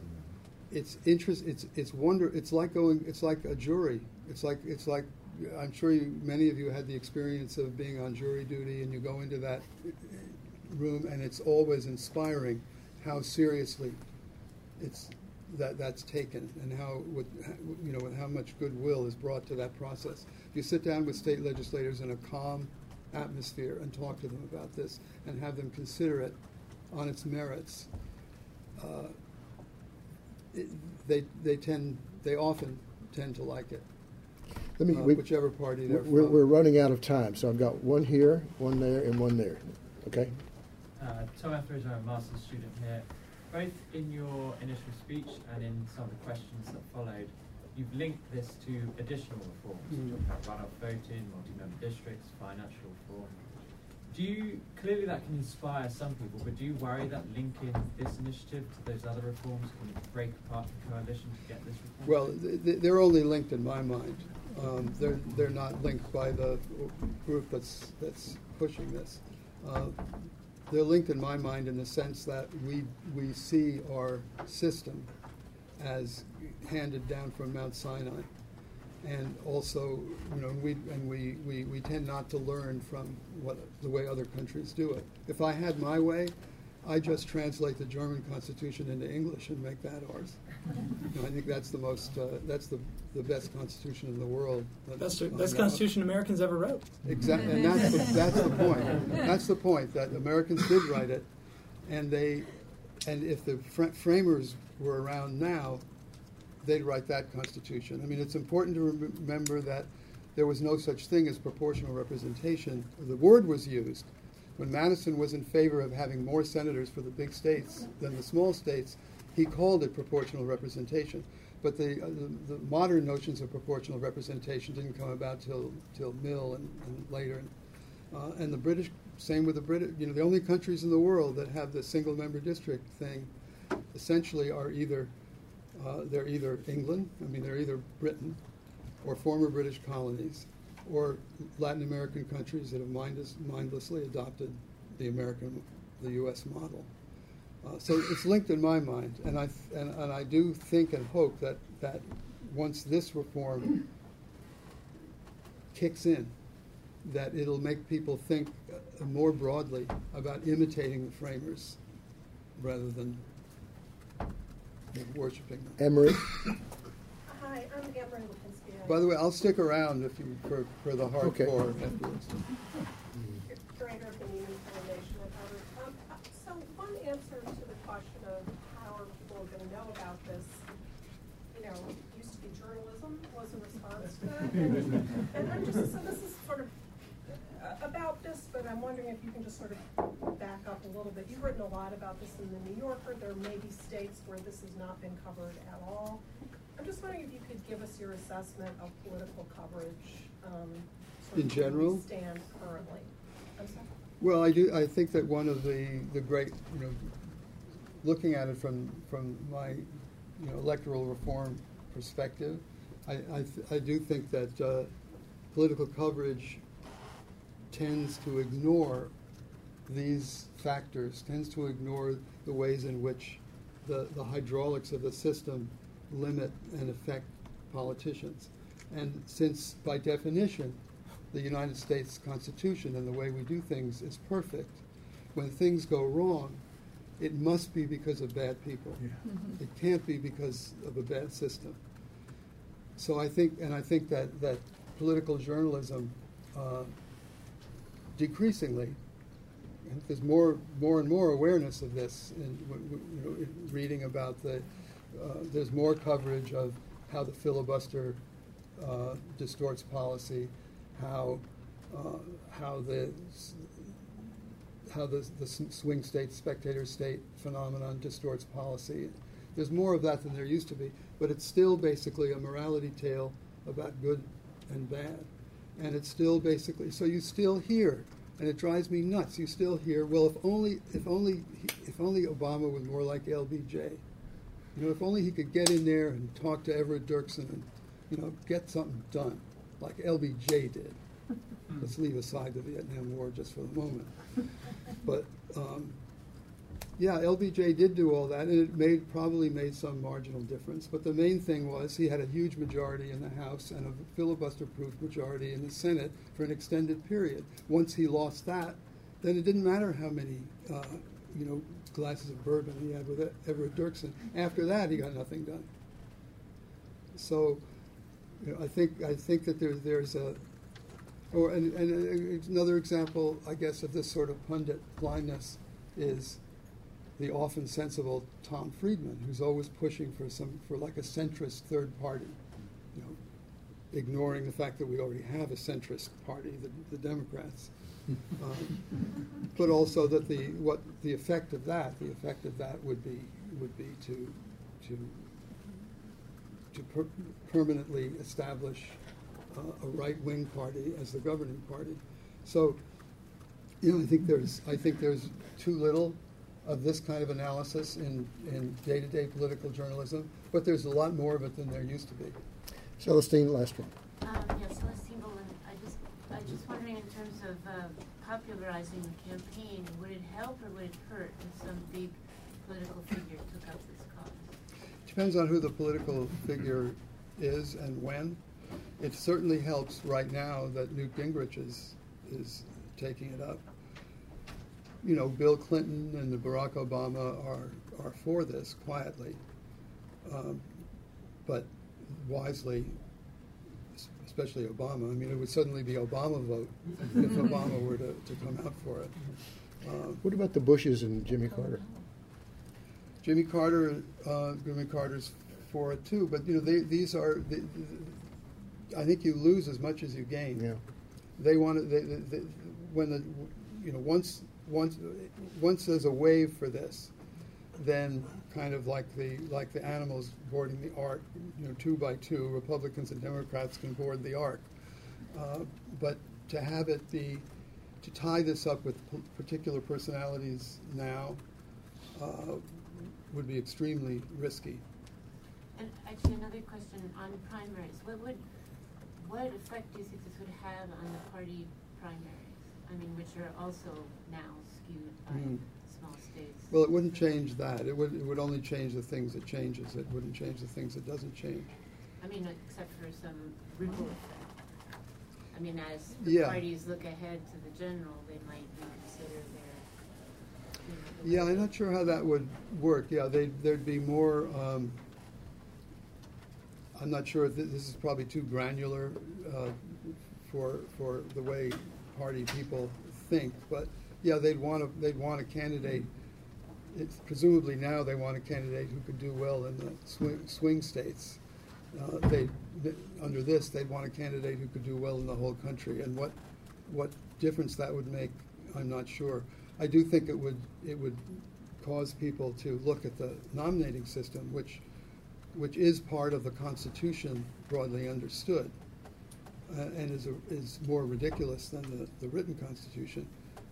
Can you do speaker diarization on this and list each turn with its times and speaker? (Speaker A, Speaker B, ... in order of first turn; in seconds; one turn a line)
Speaker A: 0.7-14.0
Speaker A: 14.8-26.4
Speaker A: 26.9-27.9
Speaker A: 28.8-29.1
Speaker A: 30.5-33.9
Speaker B: 34.8-40.3
Speaker A: 34.9-36.4
Speaker C: 41.0-62.4
Speaker A: 49.9-50.2
Speaker A: 62.0-75.1
Speaker A: 75.8-78.3
Speaker A: 79.0-90.4
Speaker A: 91.0-95.8
Speaker D: 95.0-98.2
Speaker A: 97.0-101.3
Speaker A: 101.8-105.8
Speaker A: 106.6-127.5
Speaker A: 128.1-133.3
Speaker A: 133.9-135.1
Speaker A: 135.7-138.4
Speaker A: 139.0-146.9
Speaker A: 147.6-153.8
Speaker A: 155.7-156.3
Speaker A: 157.0-161.8
Speaker A: 162.6-163.2
Speaker A: 164.9-165.8
Speaker B: 165.8-166.3
Speaker E: 167.3-169.1
Speaker A: 168.8-172.6
Speaker B: 171.2-171.5
Speaker E: 173.5-180.6
Speaker E: 181.5-186.7
Speaker E: 187.5-196.2
Speaker E: 196.8-203.9
Speaker A: 201.3-202.1
Speaker A: 204.2-207.1
Speaker A: 208.0-214.9
Speaker A: 215.5-216.6
Speaker A: 217.7-219.1
Speaker A: 219.8-230.8
Speaker A: 231.3-234.8
Speaker A: 235.3-236.6
Speaker A: 237.2-241.8
Speaker A: 243.0-246.9
Speaker A: 248.1-249.0
Speaker A: 249.8-258.2
Speaker A: 258.8-264.0
Speaker A: 264.9-284.0
Speaker A: 284.7-291.0
Speaker A: 291.7-294.4
Speaker A: 295.0-295.9
Speaker A: 297.0-315.7
Speaker A: 317.1-317.6
Speaker A: 318.4-320.4
Speaker A: 321.3-326.4
Speaker A: 327.2-332.4
Speaker A: 333.9-337.7
Speaker A: 338.3-345.7
Speaker A: 346.7-349.0
Speaker A: 349.5-352.8
Speaker A: 353.8-362.4
Speaker B: 363.0-363.9
Speaker F: 364.2-374.5
Speaker A: 375.1-378.4
Speaker A: 379.0-383.6
Speaker A: 385.0-389.4
Speaker A: 390.2-390.7
Speaker A: 391.4-393.0
Speaker A: 394.0-400.2
Speaker B: 400.2-401.8
Speaker F: 401.7-401.9
Speaker A: 403.2-408.2
Speaker A: 408.9-410.7
Speaker A: 411.4-417.1
Speaker A: 417.8-424.7
Speaker A: 425.3-427.4
Speaker A: 428.0-431.4
Speaker A: 432.1-434.8
Speaker F: 435.7-438.4
Speaker F: 439.0-447.4
Speaker A: 445.3-445.6
Speaker A: 446.7-451.7
Speaker F: 452.2-454.8
Speaker F: 455.5-461.7
Speaker A: 456.2-456.6
Speaker A: 461.2-465.0
Speaker A: 466.9-476.1
Speaker A: 476.9-481.4
Speaker A: 481.9-486.4
Speaker A: 486.9-494.8
Speaker A: 495.5-498.7
Speaker A: 499.7-503.3